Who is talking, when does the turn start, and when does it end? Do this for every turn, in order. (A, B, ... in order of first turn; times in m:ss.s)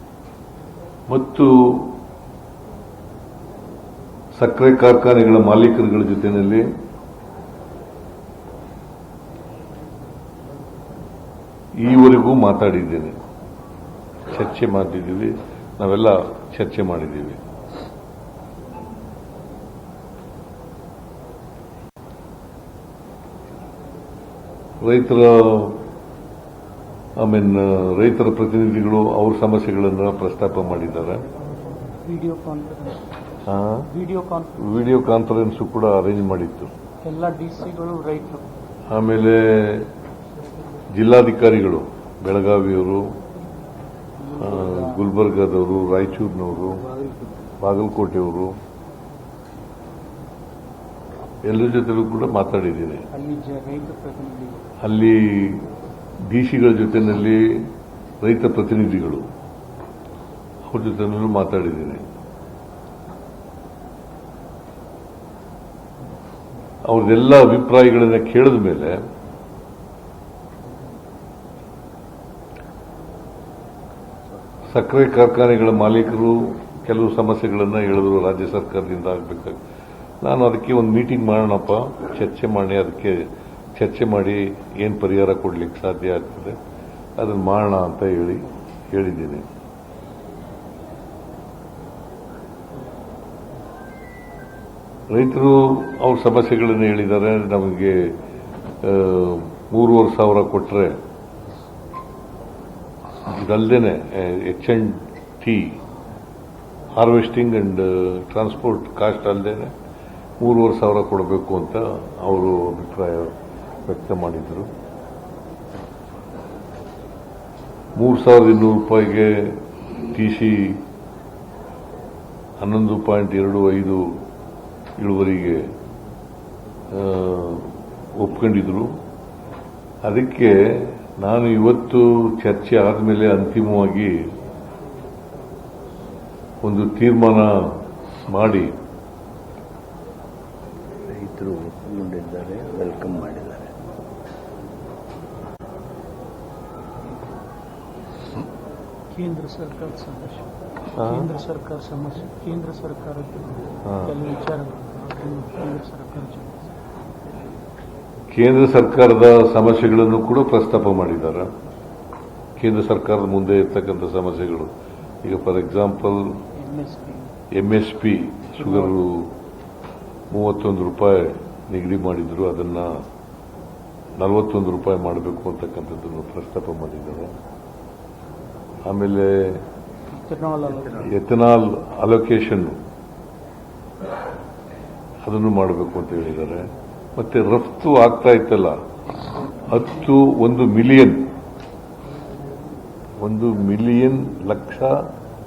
0:01.1-0:02.0 A
0:04.3-0:06.7 A
0:11.8-0:13.2 A
0:14.3-0:17.4 A
0:24.8-0:25.8 A
0:27.2-0:31.2 A
0:32.0-0:33.1 B
0:33.5-0:33.9 A
0:33.9-0:34.7 B
0:34.6-0:36.7 A
0:37.0-0:38.5 B
0:38.9-0:39.9 A
0:40.9-0:43.2 A
0:44.2-0:45.1 B
0:44.4-0:46.9 A
0:46.9-0:47.4 B
0:47.6-0:48.6 A
0:51.4-0:53.1 A
0:53.1-0:54.7 B
0:54.8-0:55.7 A
0:56.3-0:59.3 A
1:00.7-1:02.1 A
1:06.8-1:09.0 A
1:14.7-1:19.6 A
1:20.2-1:26.6 A
1:27.2-1:29.5 A
1:35.1-1:38.2 A
1:38.8-1:41.0 A
1:43.3-1:45.8 A
1:47.0-1:49.7 A
1:50.4-1:53.4 A
1:53.9-1:54.7 A
1:58.0-2:00.8 A
2:02.6-2:04.2 A
2:05.0-2:05.7 A
2:06.9-2:09.0 A
2:10.0-2:14.2 A
2:16.6-2:18.8 A
2:21.1-2:23.7 C
2:29.1-2:36.7 B
2:31.0-2:31.3 A
2:33.8-2:34.2 A
2:38.3-2:41.5 A
2:42.6-2:44.7 A
2:45.2-2:46.4 A
2:46.5-2:47.4 B
2:47.5-2:49.3 A
2:48.6-2:49.0 B
2:50.3-2:53.0 A
2:54.2-2:57.4 A
2:58.9-2:59.6 A
3:00.1-3:01.1 B
3:01.0-3:02.8 A
3:05.2-3:08.8 A
3:09.6-3:11.3 A
3:13.2-3:15.1 A